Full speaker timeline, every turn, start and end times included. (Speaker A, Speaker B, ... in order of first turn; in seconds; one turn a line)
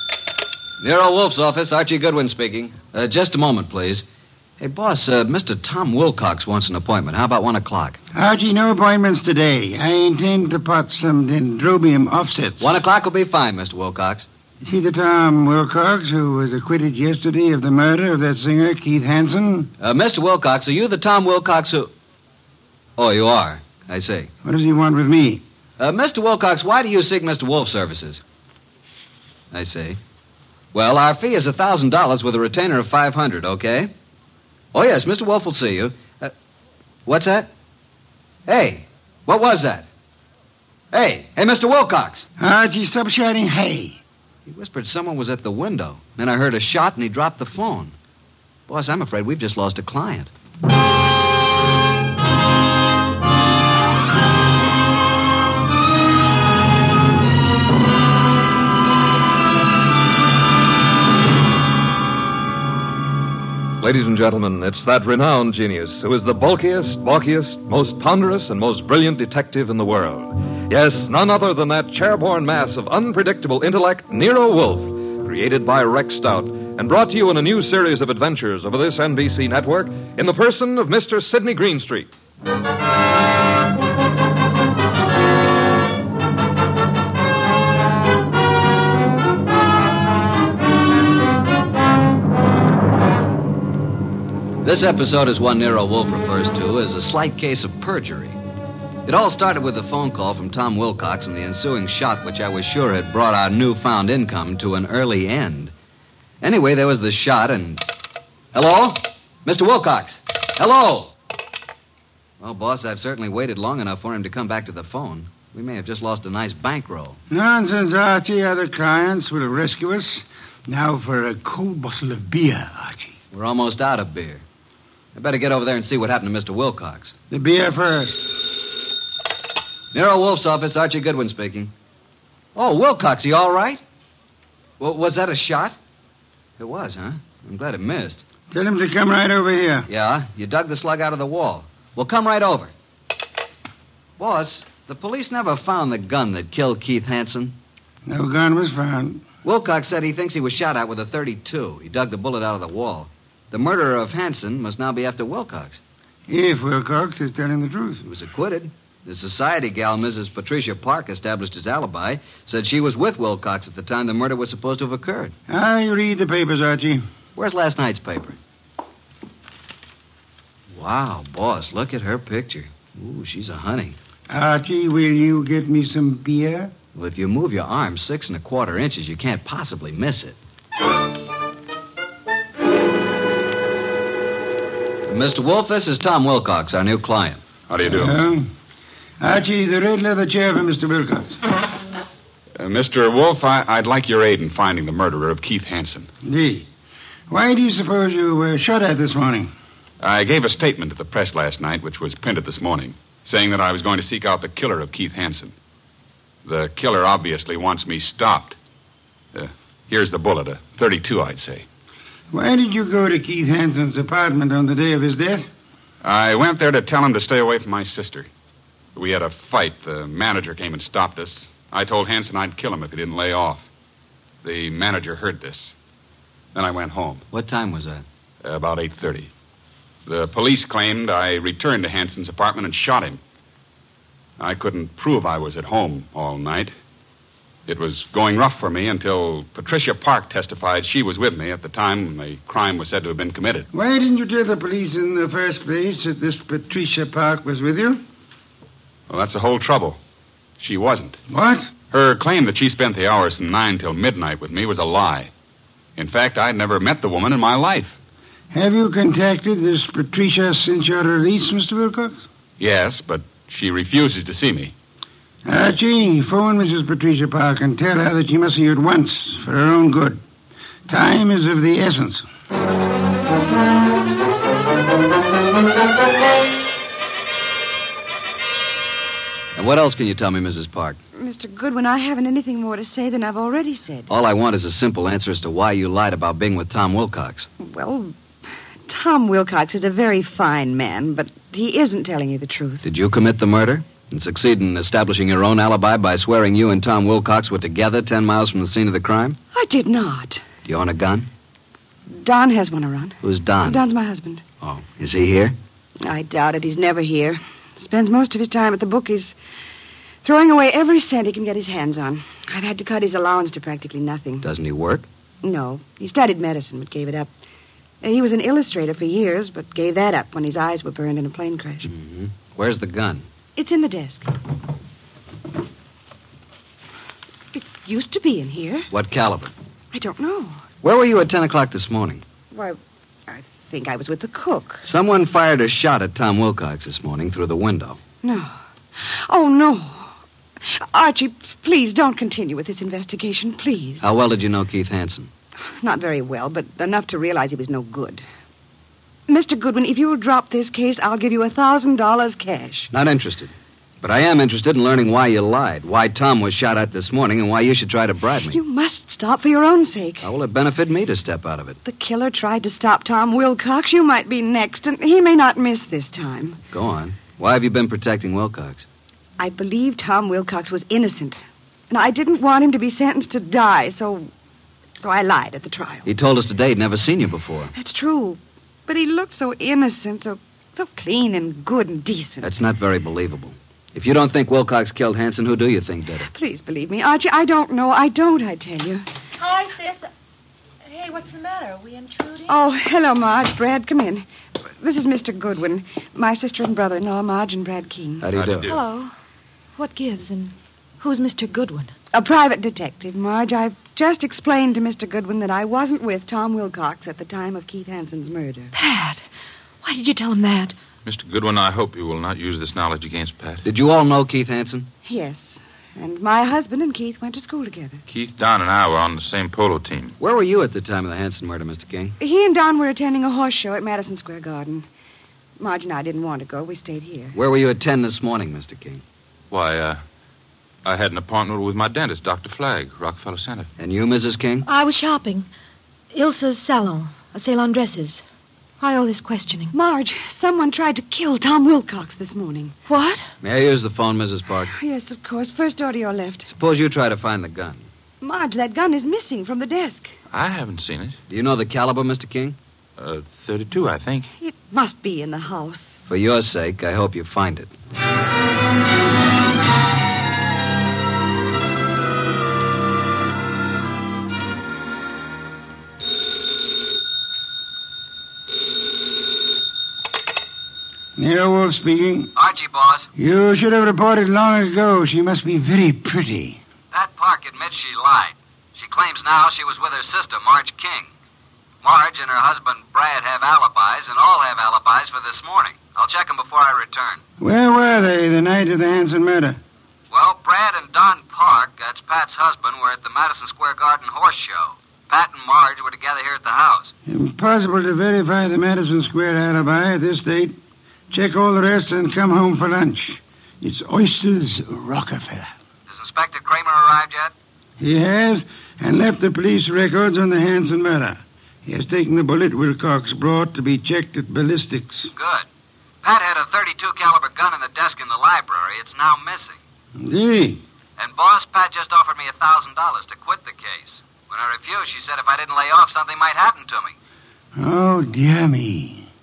Speaker A: 0.8-4.0
Speaker A: 4.6-8.0
Speaker B: 8.1-12.7
Speaker A: 12.6-14.3
Speaker B: 14.6-19.7
Speaker A: 19.8-21.9
Speaker A: 23.0-24.3
Speaker B: 24.4-25.4
Speaker A: 25.8-28.2
Speaker A: 29.5-30.0
Speaker A: 30.7-33.9
Speaker A: 34.7-36.3
Speaker A: 37.0-37.5
Speaker A: 38.5-39.9
Speaker A: 40.9-42.2
Speaker B: 42.4-44.0
Speaker A: 44.5-47.9
Speaker A: 48.7-50.3
Speaker C: 63.8-82.1
Speaker A: 94.6-98.4
Speaker A: 99.0-105.7
Speaker A: 106.4-107.8
Speaker A: 108.5-111.1
Speaker A: 112.4-117.2
Speaker B: 117.3-123.2
Speaker A: 123.3-124.4
Speaker A: 125.1-127.1
Speaker B: 127.3-128.4
Speaker A: 129.9-131.7
Speaker A: 132.5-133.8
Speaker A: 134.8-135.8
Speaker A: 136.6-138.2
Speaker B: 138.5-139.9
Speaker A: 139.9-142.7
Speaker A: 144.2-147.6
Speaker B: 148.1-149.2
Speaker A: 149.4-155.8
Speaker B: 156.3-158.0
Speaker A: 158.0-165.3
Speaker B: 165.5-167.0
Speaker A: 167.3-168.4
Speaker A: 170.7-173.9
Speaker B: 174.3-176.7
Speaker A: 176.9-180.4
Speaker A: 185.1-187.4
Speaker D: 187.7-188.2
Speaker B: 187.9-188.5
Speaker B: 189.2-191.4
Speaker D: 192.6-196.1
Speaker B: 196.2-196.7
Speaker B: 197.3-199.5
Speaker D: 200.0-205.5
Speaker D: 206.4-208.6
Speaker D: 209.3-211.6
Speaker B: 212.3-215.4
Speaker D: 216.0-218.3
Speaker D: 218.9-223.7
Speaker D: 224.4-225.7
Speaker D: 226.5-227.2
Speaker A: 227.3-228.0
Speaker D: 228.4-229.3
Speaker D: 230.1-233.2
Speaker D: 234.4-236.7
Speaker D: 237.7-243.7
Speaker B: 243.7-248.0
Speaker D: 249.1-250.0
Speaker D: 250.6-251.2
Speaker B: 251.3-251.7
Speaker D: 251.9-255.3
Speaker D: 255.9-257.9
Speaker B: 258.5-262.2
Speaker D: 262.6-264.7
Speaker B: 265.4-270.2
Speaker B: 270.9-272.2
Speaker A: 279.6-281.0
Speaker E: 281.2-284.1
Speaker A: 284.1-287.5
Speaker E: 287.6-288.1
Speaker E: 288.9-292.8
Speaker A: 292.8-299.4
Speaker E: 299.5-300.4
Speaker A: 300.6-301.3
Speaker E: 302.1-304.4
Speaker A: 303.2-303.8
Speaker A: 304.6-305.6
Speaker E: 306.0-309.3
Speaker E: 310.2-314.4
Speaker A: 314.4-315.1
Speaker E: 315.4-317.3
Speaker E: 318.0-321.9
Speaker A: 321.8-323.2
Speaker E: 323.6-324.3
Speaker E: 327.5-328.9
Speaker A: 328.9-329.5
Speaker E: 329.9-330.6
Speaker A: 330.8-332.2
Speaker E: 332.5-334.8
Speaker A: 334.8-338.0
Speaker E: 338.2-340.1
Speaker E: 340.8-344.0
Speaker A: 344.0-345.3
Speaker E: 345.8-348.2
Speaker E: 349.3-352.9
Speaker A: 352.9-358.6
Speaker E: 358.5-360.2
Speaker A: 360.2-361.8
Speaker E: 361.8-366.6
Speaker A: 366.7-368.8
Speaker E: 369.4-371.4
Speaker E: 371.9-374.3
Speaker E: 375.0-376.1
Speaker A: 376.1-377.7
Speaker E: 377.7-382.5
Speaker A: 382.4-386.3
Speaker E: 386.3-389.0
Speaker F: 389.4-390.0
Speaker F: 390.9-392.5
Speaker E: 392.5-398.3
Speaker A: 398.2-398.7
Speaker G: 398.3-398.8
Speaker F: 398.7-399.1
Speaker F: 399.8-401.9
Speaker E: 402.1-408.7
Speaker F: 408.7-409.2
Speaker F: 409.8-410.7
Speaker G: 411.0-413.6
Speaker A: 413.6-414.9
Speaker E: 415.0-418.0
Speaker G: 418.1-420.1
Speaker A: 420.2-422.2
Speaker E: 422.2-424.8
Speaker E: 425.6-427.3
Speaker A: 427.3-429.0
Speaker G: 429.5-430.0
Speaker G: 430.8-433.7
Speaker A: 433.8-434.7
Speaker F: 434.6-435.5
Speaker F: 436.1-438.2
Speaker F: 438.8-439.7
Speaker E: 439.7-442.7
Speaker F: 442.9-443.2
Speaker A: 443.4-444.7
Speaker E: 444.7-446.5
Speaker A: 446.4-447.9
Speaker E: 448.2-450.1
Speaker G: 450.3-451.2
Speaker A: 451.3-452.6
Speaker G: 453.0-454.3
Speaker E: 454.4-455.9
Speaker A: 456.1-457.7
Speaker B: 471.1-472.3
Speaker A: 472.3-473.1
Speaker B: 473.1-476.6
Speaker A: 476.9-481.1
Speaker A: 481.8-487.2
Speaker B: 487.4-489.6
Speaker A: 490.1-496.9
Speaker B: 497.1-500.6
Speaker B: 501.1-505.5
Speaker A: 505.9-507.3
Speaker B: 507.8-515.1
Speaker A: 515.1-515.5
Speaker A: 516.0-519.6
Speaker B: 520.0-520.6
Speaker A: 521.0-527.0
Speaker B: 527.5-529.1